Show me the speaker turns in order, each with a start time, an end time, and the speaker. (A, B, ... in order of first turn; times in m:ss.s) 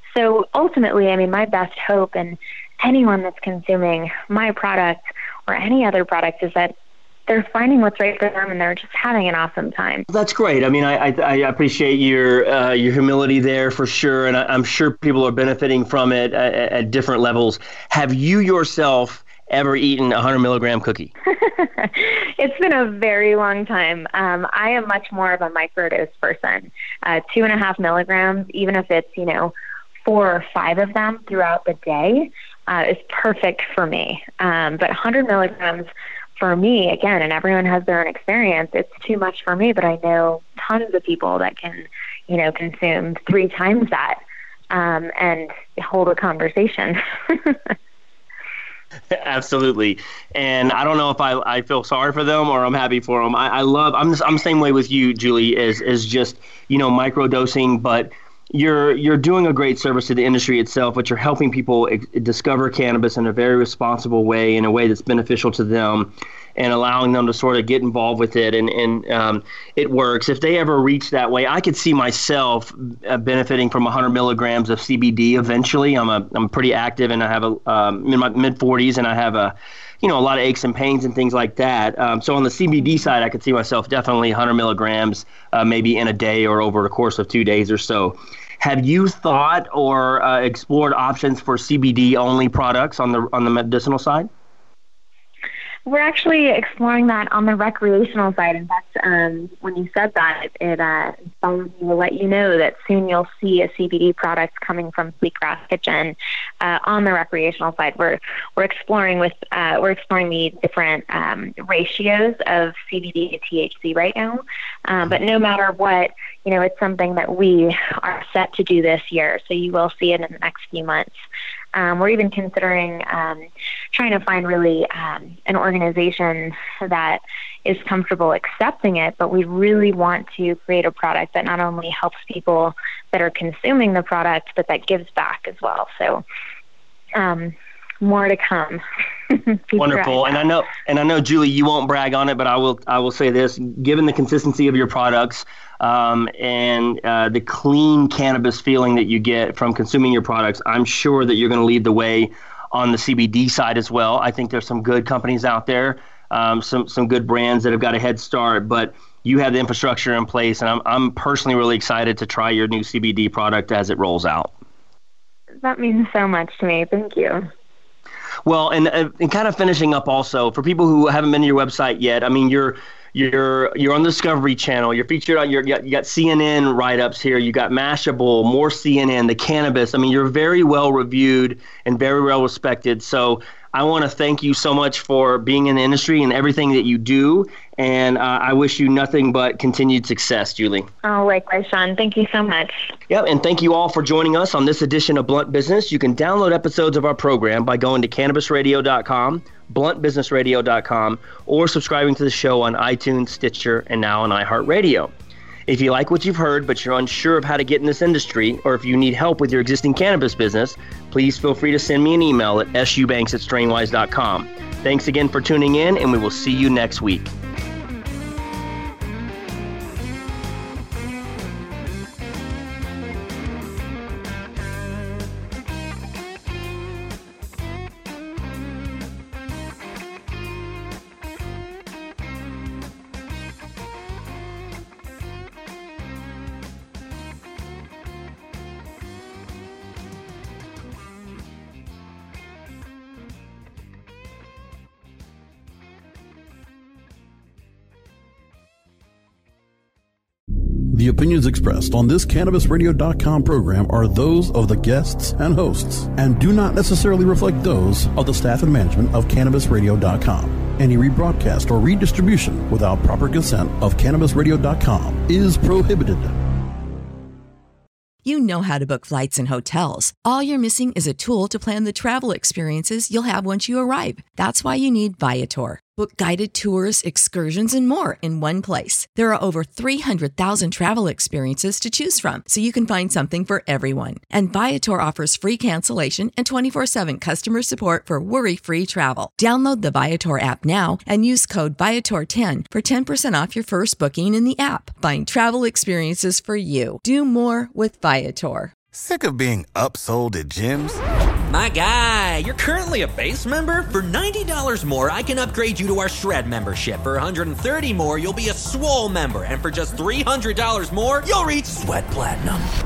0:00.2-0:06.7 A
0:07.3-0:10.1 A
0:10.1-0:21.1 B
0:21.3-0:29.5 A
0:30.1-0:44.2 A
0:44.7-0:47.7 A
0:49.1-1:34.3 B
1:35.9-2:01.1 A
2:01.8-2:16.2 A
2:17.2-2:20.4 A
2:19.8-2:44.5 B
2:45.6-2:47.5 A
2:48.5-3:10.9 B
3:11.0-3:12.8 A
3:13.1-3:25.1 B
3:25.7-3:37.3 B
4:10.9-4:26.4 C
4:28.2-4:58.7 D
4:58.9-5:01.0 E
5:01.5-5:12.6 F